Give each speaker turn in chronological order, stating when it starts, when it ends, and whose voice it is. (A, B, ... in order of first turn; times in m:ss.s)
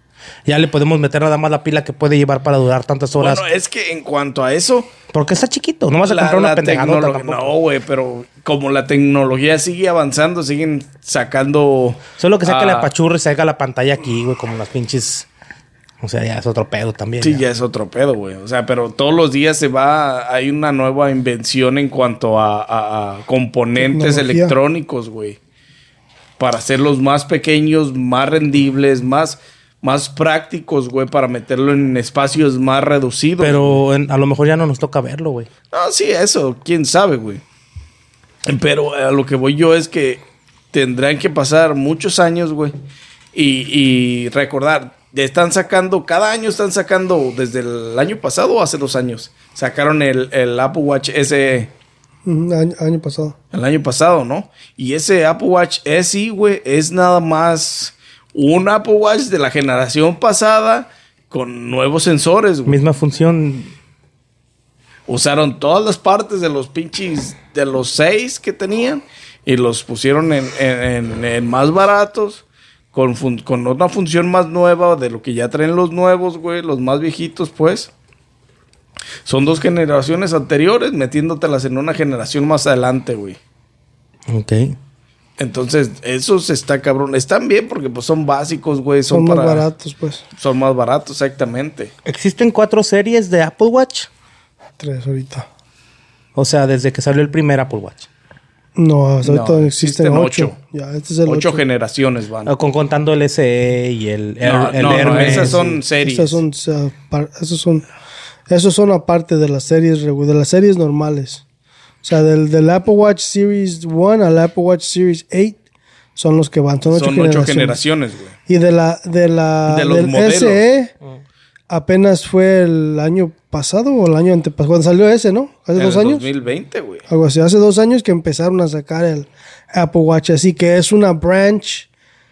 0:00.5-0:03.4 A
0:03.2-0:04.9 B
0:05.1-0:07.6 A
0:06.0-0:12.9 B
0:12.2-0:15.3 A
0:16.0-0:17.4 A
0:17.2-0:25.4 B
0:23.8-0:24.6 C
0:26.4-0:33.8 B
0:33.4-0:35.5 A
0:35.7-0:37.4 B
0:38.5-0:42.7 B
0:43.3-0:51.7 B
0:52.3-0:53.4 C
0:53.5-1:02.8 B
1:02.7-1:03.7 A
1:05.1-1:17.9 B
1:19.3-1:23.4 B
1:24.3-1:24.8 A
1:25.4-1:29.7 B
1:29.1-1:30.2 C
1:30.4-1:31.9 B
1:32.0-1:34.1 A
1:34.8-1:35.5 C
1:36.4-1:38.1 A
1:38.8-1:41.6 C
1:39.2-1:40.6 B
1:41.3-1:42.5 B
1:42.5-1:45.7 A
1:44.4-1:46.4 B
1:44.8-1:47.8 C
1:48.5-1:51.4 C
1:52.0-1:55.6 C
1:56.2-1:57.8 C
1:56.9-1:58.4 B
1:58.5-2:00.9 C
1:59.7-2:00.6 B
2:01.7-2:06.3 C
2:05.8-2:07.0 B
2:07.1-2:11.9 C